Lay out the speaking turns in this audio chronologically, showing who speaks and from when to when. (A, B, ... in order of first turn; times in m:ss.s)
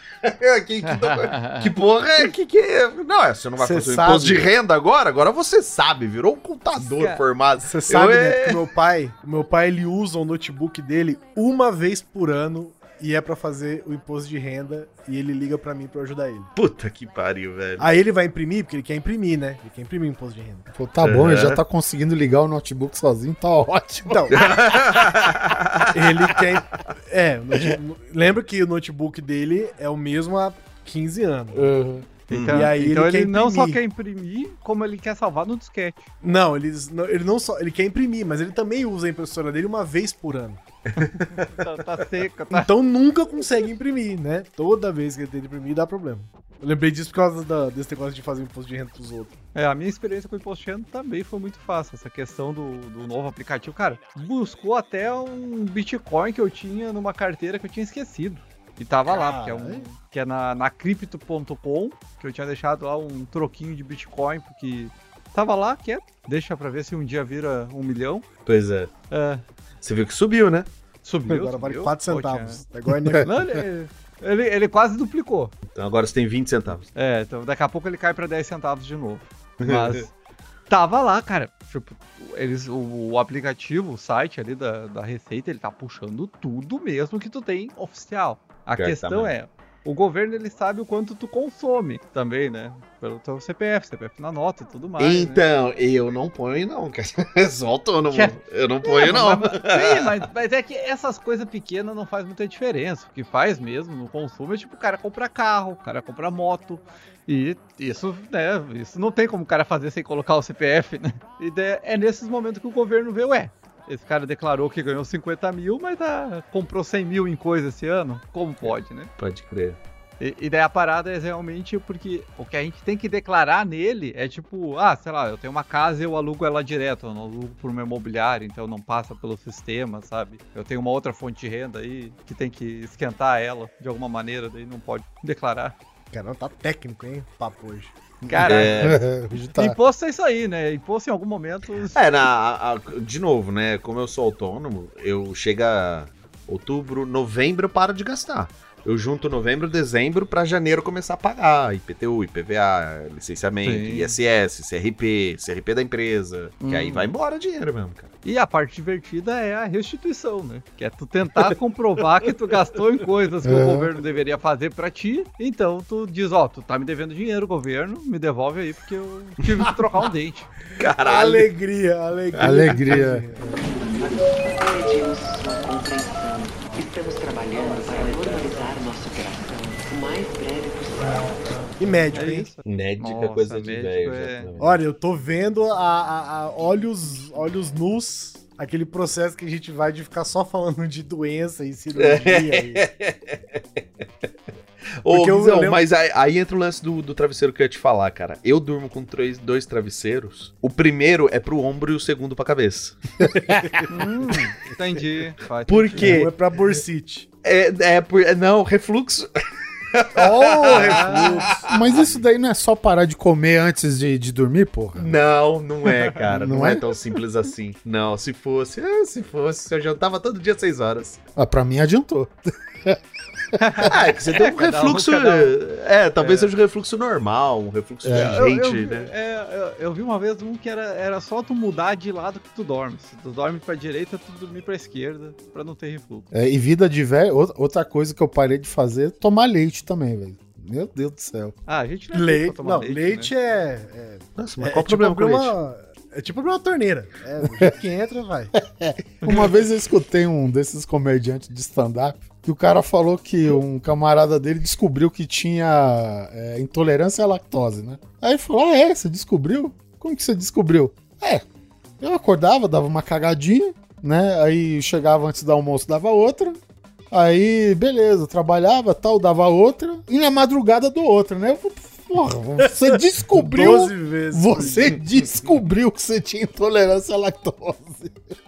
0:00.2-0:08.7 A
0:00.8-0:01.7 B
0:03.6-0:04.5 C
0:06.8-0:07.2 B
0:07.6-0:16.5 C
0:16.6-0:17.9 A
0:17.8-0:20.7 C
0:20.7-0:24.5 D
0:21.0-0:21.6 A
0:24.1-0:24.6 C
0:24.3-0:26.3 A
0:25.9-0:31.7 C
0:32.1-0:36.1 B
0:32.3-0:32.7 A
0:32.3-0:33.8 C
0:36.2-0:40.6 C
0:41.3-0:42.7 B
0:42.5-0:49.3 C
0:49.5-1:08.2 B
0:59.0-0:59.8 C
1:08.4-1:08.9 A
1:09.1-1:09.4 B
1:09.8-1:10.7 A
1:11.0-1:12.6 B
1:11.3-1:13.3 C
1:13.2-1:15.5 B
1:15.7-1:16.9 A
1:16.9-1:20.1 B
1:19.6-1:20.0 A
1:20.7-1:35.4 B
1:28.8-1:29.3 A
1:35.0-1:40.2 A
1:38.1-1:59.1 B
1:58.7-1:59.8 A
2:00.2-2:15.7 B
2:16.1-2:17.9 C
2:18.3-2:19.0 B
2:18.3-2:19.8 D
2:18.4-2:19.0 A
2:19.6-2:22.0 B
2:21.9-2:38.1 A
2:33.6-2:34.2 B
2:36.6-2:37.1 B
2:38.2-2:50.5 B
2:43.4-2:43.9 D
2:50.8-2:51.5 A
2:51.0-2:53.5 C
2:52.4-2:53.0 A
2:52.4-2:53.2 D
2:53.5-3:02.1 E
3:01.8-3:02.5 C
3:02.1-3:04.5 B
3:02.6-3:04.8 A
3:04.6-3:12.8 C
3:11.9-3:13.6 A
3:15.0-3:23.6 A
3:15.1-3:15.8 C
3:23.2-3:23.8 D
3:23.9-3:26.2 B
3:25.7-3:26.3 A
3:26.0-3:27.2 C
3:27.4-3:29.3 A
3:29.9-3:32.2 A
3:30.2-3:31.8 C
3:30.7-3:31.2 B
3:31.4-3:35.1 D
3:35.0-3:41.2 A
3:36.3-3:36.8 D
3:41.4-3:43.0 D
3:43.6-3:45.6 B
3:43.9-3:49.1 A
3:46.2-3:46.5 B
3:48.0-3:48.4 D
3:48.1-3:56.3 B
3:56.3-4:01.6 D
4:01.7-4:03.3 B
4:02.1-4:08.5 C
4:04.4-4:05.6 A
4:07.4-4:07.7 D
4:08.6-4:21.4 D
4:22.0-4:26.6 D
4:27.1-4:38.2 D
4:32.6-4:35.0 C